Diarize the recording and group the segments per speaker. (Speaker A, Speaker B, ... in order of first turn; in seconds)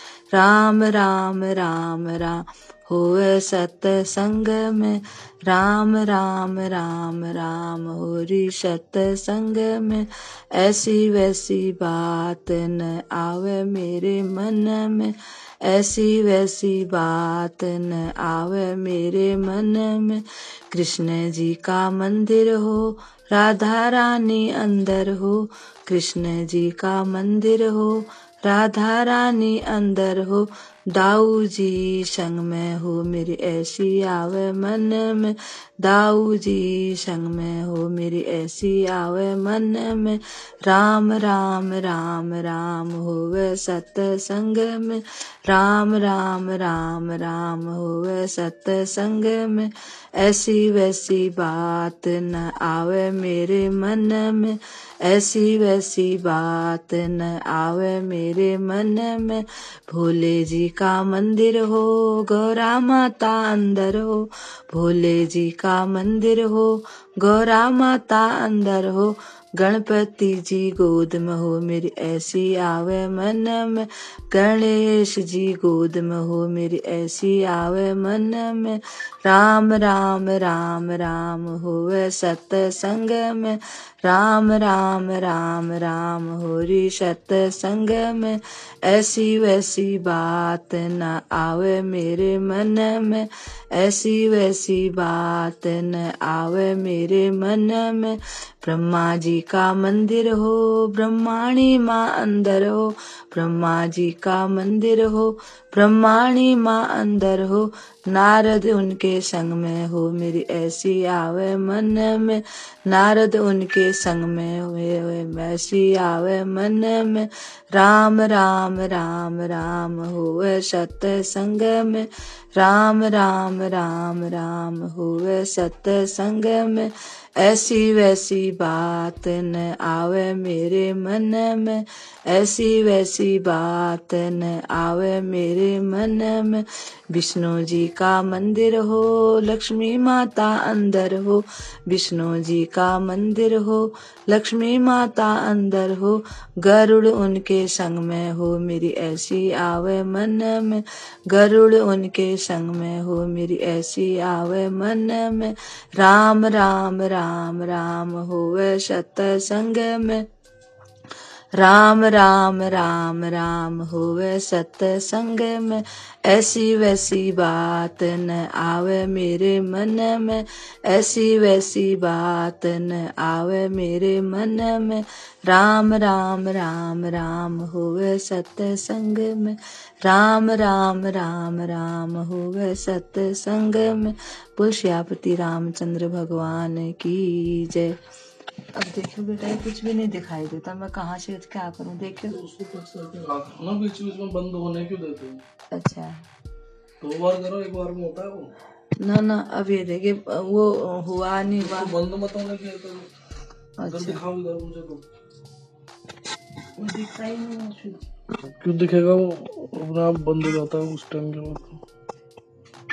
Speaker A: 0.3-160.2, 161.6-188.0, 188.8-192.4, 195.7-196.2, 199.0-201.9, 203.8-204.2, 206.8-208.0
Speaker B: 192.3-195.4, 197.0-198.5, 201.6-203.1, 203.9-205.0, 208.6-211.8